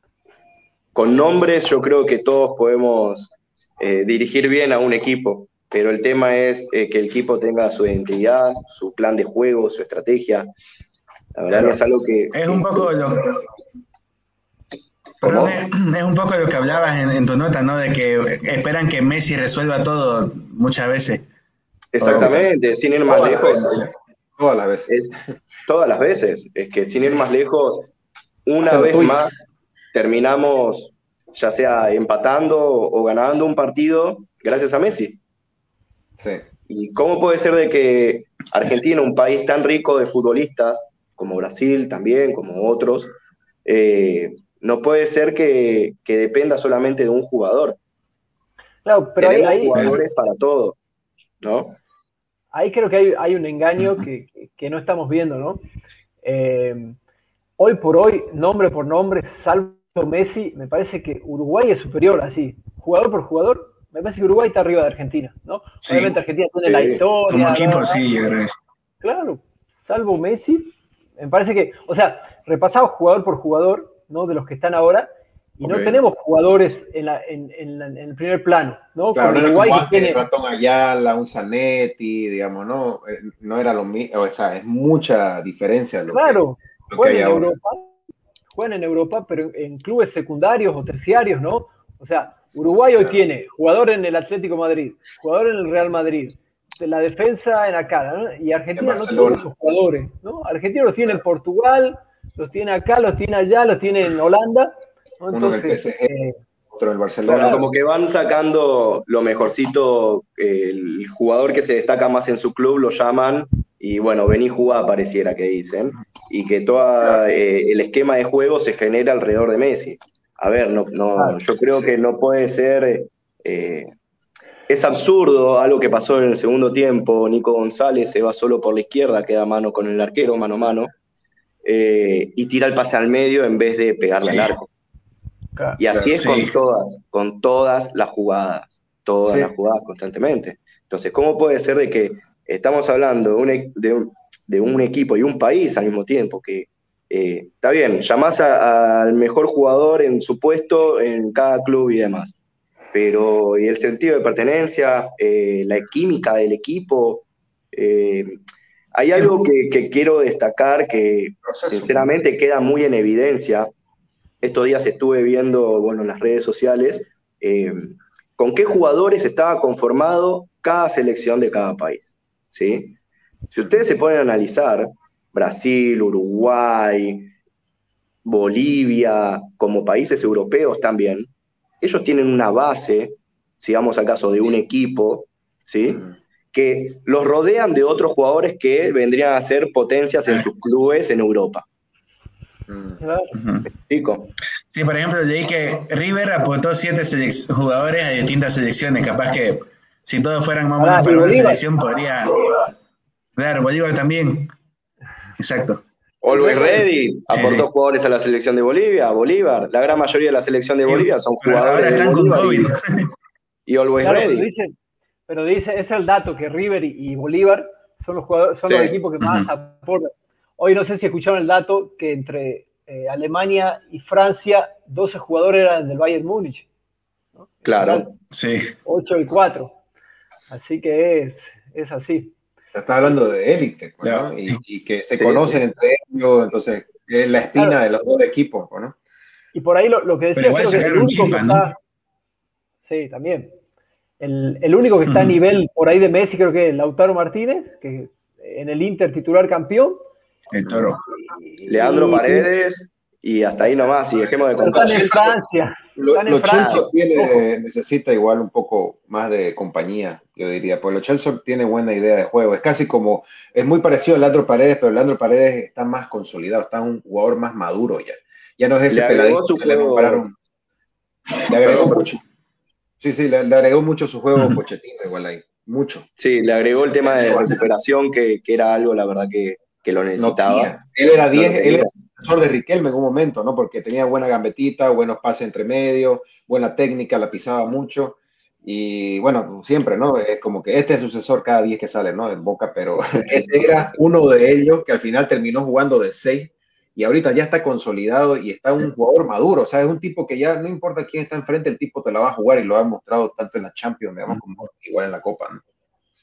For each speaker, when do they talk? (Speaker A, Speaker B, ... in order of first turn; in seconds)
Speaker A: 0.9-10.5, 11.3-12.9, 21.9-23.9, 25.7-27.9, 28.4-29.4, 29.9-35.2, 36.7-43.1, 43.6-47.8, 49.2-50.8, 51.4-51.8, 66.6-67.0, 107.2-123.9, 124.7-130.9, 131.6-134.7, 135.8-152.3, 152.9-158.4, 158.9-163.7, 164.4-173.0, 173.5-177.3, 178.2-181.3, 181.8-191.6, 193.9-194.3, 206.2-212.7, 213.7-214.5, 218.7-218.9, 227.6-228.2, 235.1-235.6, 251.7-255.1, 256.6-256.8, 268.9-270.2, 271.6-272.1, 276.2-280.8, 281.3-281.9, 293.1-293.7
Speaker B: 12.3-13.4, 15.2-21.2, 22.0-22.4, 65.8-66.1, 67.3-68.6, 134.2-134.5, 136.2-136.5, 193.3-193.7, 194.7-202.7, 203.4-204.5, 205.4-205.8, 207.3-207.7, 210.8-213.1, 219.2-219.5, 228.3-228.7, 234.0-234.6, 240.3-241.7, 245.1-245.3, 250.5-251.0
Speaker C: 22.0-22.4, 23.1-24.9, 28.6-29.4, 36.2-36.4, 49.7-50.0, 75.6-75.9, 79.1-87.5, 93.0-93.2, 98.7-99.4, 105.3-106.1, 106.7-107.6, 121.2-121.9, 135.9-136.2, 139.2-139.5, 161.4-162.1, 185.9-186.1, 192.7-193.0, 232.7-238.9, 254.2-255.4, 256.0-270.3, 271.4-272.2, 273.0-276.1, 276.9-277.6, 280.2-305.6
Speaker D: 48.8-50.0, 52.5-55.6, 56.2-57.0, 57.6-68.1, 69.0-80.2, 86.1-88.0, 88.5-106.4, 193.0-193.4, 200.8-201.6, 214.0-214.7, 215.3-226.7, 227.4-228.1, 228.8-229.8, 230.5-232.3, 239.5-241.7, 242.8-243.5, 244.2-250.0, 251.3-252.5, 254.6-257.4